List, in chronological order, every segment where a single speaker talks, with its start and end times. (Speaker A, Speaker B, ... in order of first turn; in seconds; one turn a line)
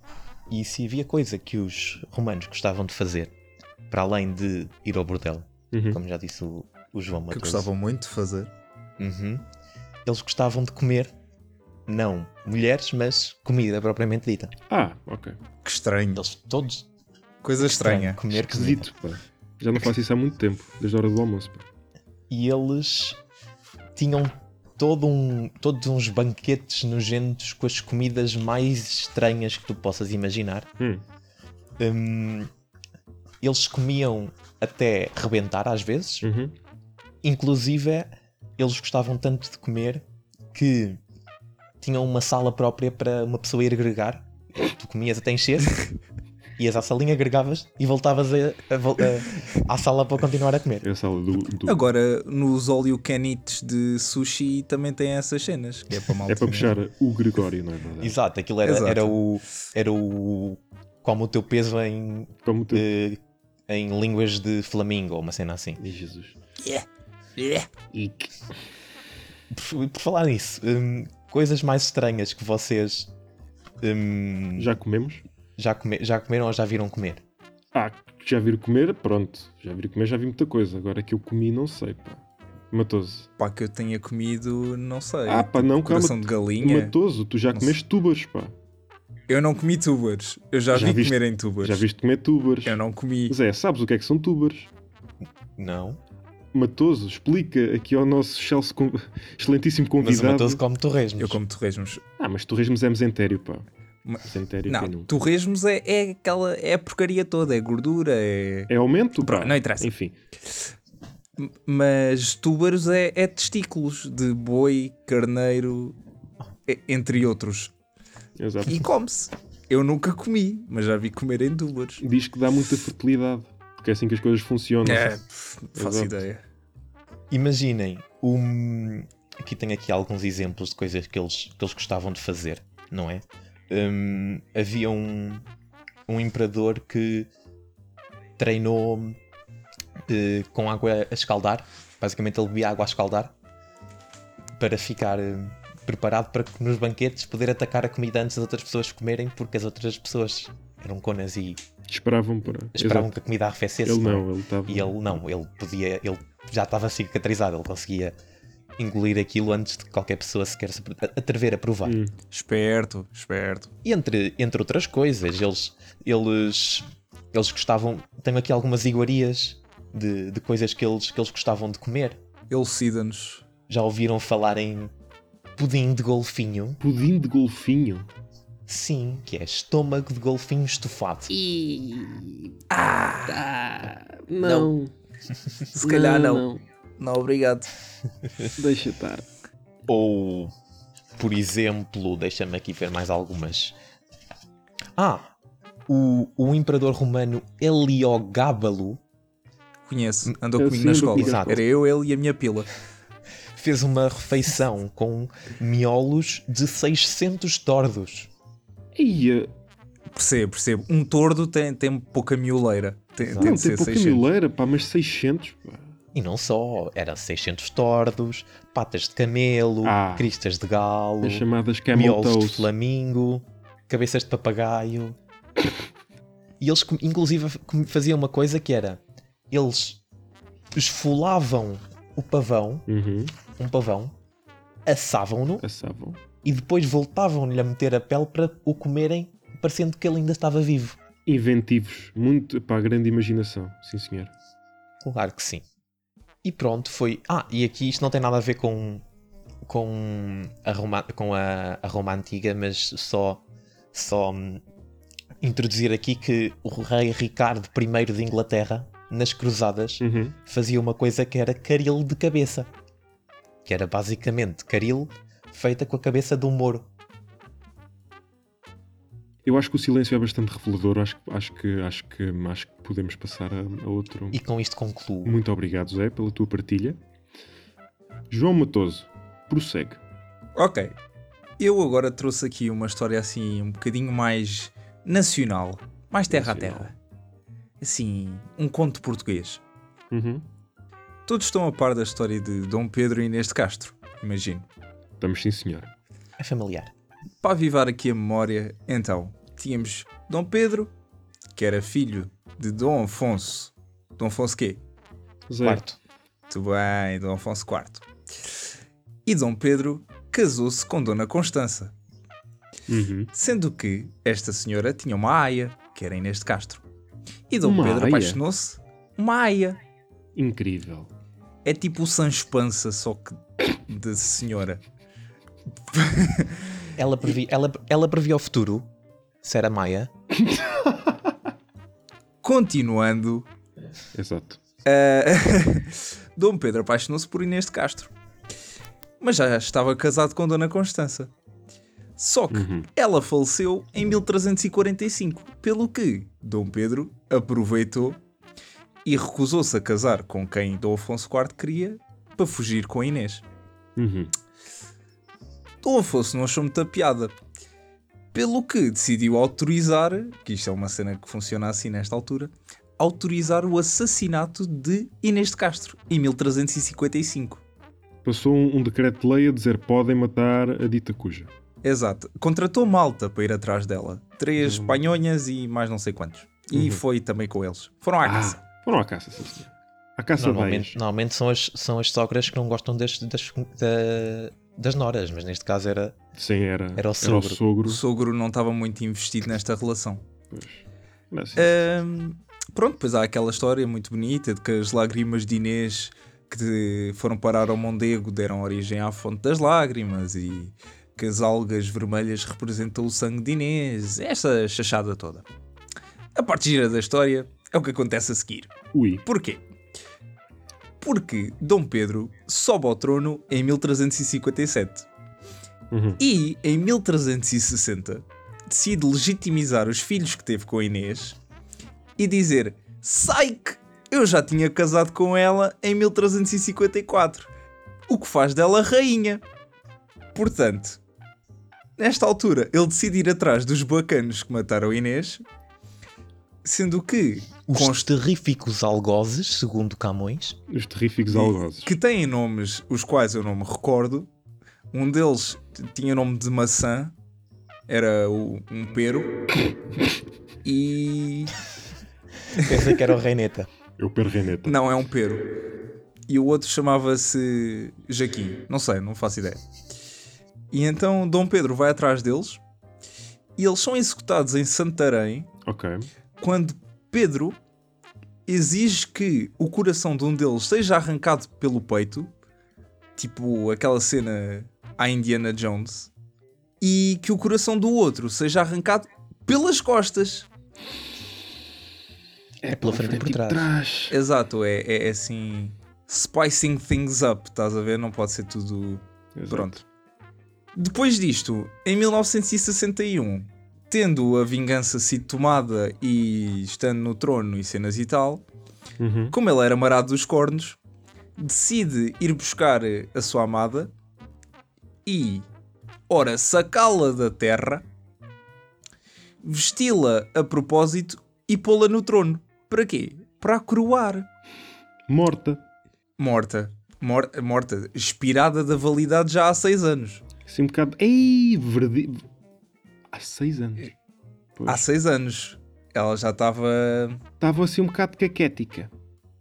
Speaker A: 0.5-3.3
Speaker A: 3.9-7.7
Speaker B: 5.7-6.0
Speaker C: 7.3-8.5
Speaker A: 9.0-9.4
Speaker A: 10.0-11.1
Speaker A: 11.9-14.5
Speaker B: 14.7-15.4
Speaker C: 15.6-16.2
Speaker A: 16.1-16.9
Speaker C: 17.4-18.2
Speaker A: 17.6-18.9
Speaker B: 18.3-21.6
Speaker A: 22.3-23.2
Speaker A: 23.9-30.7
Speaker A: 31.8-32.5
Speaker A: 33.4-36.3
Speaker B: 36.2-36.5
Speaker A: 37.2-41.0
Speaker A: 41.8-45.9
Speaker A: 46.6-50.9
Speaker B: 50.8-51.8
Speaker C: 51.6-56.7
Speaker B: 56.3-58.2
Speaker A: 58.0-65.8
Speaker C: 58.6-59.2
Speaker B: 62.4-62.9
Speaker B: 65.8-66.4
Speaker C: 67.4-67.7
Speaker B: 67.9-68.3
Speaker A: 69.5-73.1
Speaker A: 73.8-74.7
Speaker B: 74.6-75.2
Speaker A: 75.6-77.2
Speaker B: 77.7-83.3
Speaker C: 83.4-86.9
Speaker B: 85.2-88.5
Speaker C: 89.3-91.8
Speaker B: 90.7-92.8
Speaker C: 92.6-93.3
Speaker B: 93.3-94.7
Speaker A: 95.6-96.0
Speaker B: 96.5-100.6
Speaker A: 100.0-101.4
Speaker C: 101.2-102.0
Speaker B: 102.2-103.6
Speaker C: 104.0-108.7
Speaker B: 104.2-105.1
Speaker B: 108.7-110.2
Speaker C: 109.2-109.9
Speaker C: 111.4-116.0
Speaker C: 116.7-117.7
Speaker B: 118.4-118.8
Speaker C: 118.6-122.0
Speaker B: 122.0-125.1
Speaker C: 124.8-126.4
Speaker B: 125.8-126.2
Speaker A: 127.3-135.4
Speaker A: 136.1-137.3
Speaker A: 138.4-139.2
Speaker A: 140.1-143.3
Speaker A: 144.6-151.6
Speaker B: 151.9-153.1
Speaker A: 152.7-158.2
Speaker B: 153.8-155.0
Speaker A: 158.8-162.0
Speaker B: 161.8-162.1
Speaker C: 162.3-163.7
Speaker A: 163.8-172.2
Speaker C: 172.5-173.4
Speaker A: 173.7-174.9
Speaker A: 175.6-176.8
Speaker B: 176.8-178.1
Speaker A: 178.7-181.3
Speaker B: 181.3-182.5
Speaker C: 182.7-183.4
Speaker B: 183.3-184.9
Speaker C: 184.4-184.7
Speaker C: 185.7-186.5
Speaker B: 185.8-186.6
Speaker C: 187.0-187.7
Speaker B: 188.6-189.2
Speaker A: 189.9-190.5
Speaker A: 191.2-193.7
Speaker A: 194.9-195.3
Speaker A: 195.9-199.0
Speaker C: 199.8-202.7
Speaker B: 200.6-201.6
Speaker A: 201.1-201.6
Speaker A: 203.5-208.3
Speaker B: 208.9-209.5
Speaker C: 210.1-214.2
Speaker A: 213.2-213.6
Speaker B: 213.4-215.8
Speaker A: 216.1-225.2
Speaker B: 219.8-220.3
Speaker B: 221.2-222.7
Speaker A: 226.6-230.0
Speaker A: 230.7-232.8
Speaker B: 232.9-233.3
Speaker A: 233.5-234.2
Speaker A: 234.8-235.6
Speaker B: 235.6-236.2
Speaker A: 236.4-241.0
Speaker B: 241.2-244.3
Speaker A: 245.0-245.6
Speaker A: 246.4-249.0
Speaker A: 249.6-254.6
Speaker A: 255.4-262.7
Speaker B: 260.0-260.3
Speaker A: 263.6-266.9
Speaker B: 269.4-274.4
Speaker A: 274.3-275.4
Speaker B: 275.2-277.0
Speaker B: 278.3-280.0
Speaker C: 280.6-280.9
Speaker C: 281.6-286.9
Speaker B: 286.3-286.9
Speaker C: 287.8-289.6
Speaker B: 290.1-290.4
Speaker C: 291.3-294.6
Speaker B: 295.2-295.9
Speaker A: 296.4-296.9
Speaker C: 297.4-300.9
Speaker C: 301.5-304.8
Speaker B: 305.5-305.8
Speaker A: 305.6-306.0
Speaker C: 306.5-308.0
Speaker C: 309.2-311.9
Speaker B: 312.9-313.3
Speaker C: 313.3-316.8
Speaker C: 317.5-319.8
Speaker B: 317.6-318.4
Speaker B: 320.4-321.1
Speaker C: 321.6-324.8
Speaker C: 325.9-326.6
Speaker A: 327.0-328.9
Speaker A: 329.4-330.1
Speaker B: 330.4-331.1
Speaker C: 332.4-333.5
Speaker B: 334.1-334.6
Speaker C: 334.8-338.1
Speaker C: 339.2-341.3
Speaker C: 342.2-348.2
Speaker B: 342.5-342.9
Speaker C: 349.0-353.4
Speaker B: 354.0-354.3
Speaker C: 355.8-357.3
Speaker C: 358.3-367.6
Speaker B: 368.2-371.5
Speaker C: 371.8-378.6
Speaker B: 374.6-375.0
Speaker B: 376.7-377.0
Speaker B: 378.2-381.0
Speaker A: 380.4-386.2
Speaker B: 386.4-388.0
Speaker A: 386.9-387.6
Speaker C: 387.9-390.2
Speaker B: 390.5-391.8
Speaker C: 391.6-405.4
Speaker C: 406.4-409.6
Speaker B: 408.9-409.2
Speaker C: 411.0-415.1
Speaker B: 415.9-416.2
Speaker C: 416.2-421.4
Speaker C: 422.2-427.5
Speaker C: 428.1-429.4
Speaker C: 430.3-431.0
Speaker C: 432.0-435.4
Speaker C: 436.6-438.0
Speaker A: 437.7-440.6
Speaker B: 440.7-441.9
Speaker C: 441.3-444.3
Speaker C: 444.9-447.1
Speaker C: 447.9-449.3
Speaker C: 450.6-451.6
Speaker A: 452.6-453.7
Speaker C: 452.6-453.1
Speaker B: 454.0-454.8
Speaker C: 454.6-455.5
Speaker C: 456.3-459.6
Speaker C: 460.7-462.6
Speaker C: 463.6-465.5
Speaker B: 465.6-466.1
Speaker C: 466.4-467.6
Speaker C: 468.5-472.3
Speaker C: 473.2-476.1
Speaker C: 476.8-480.5
Speaker B: 482.6-484.2
Speaker A: 482.7-483.7
Speaker C: 484.1-489.8
Speaker B: 489.4-489.8
Speaker C: 490.8-498.4
Speaker B: 499.0-499.4
Speaker C: 499.3-500.8
Speaker C: 501.4-503.9
Speaker C: 505.1-505.4
Speaker C: 506.1-507.8
Speaker C: 509.4-514.2
Speaker B: 515.1-515.6
Speaker C: 516.2-520.2
Speaker B: 520.5-522.2
Speaker B: 523.1-523.9
Speaker B: 524.6-524.8
Speaker C: 524.7-527.2
Speaker B: 527.4-528.9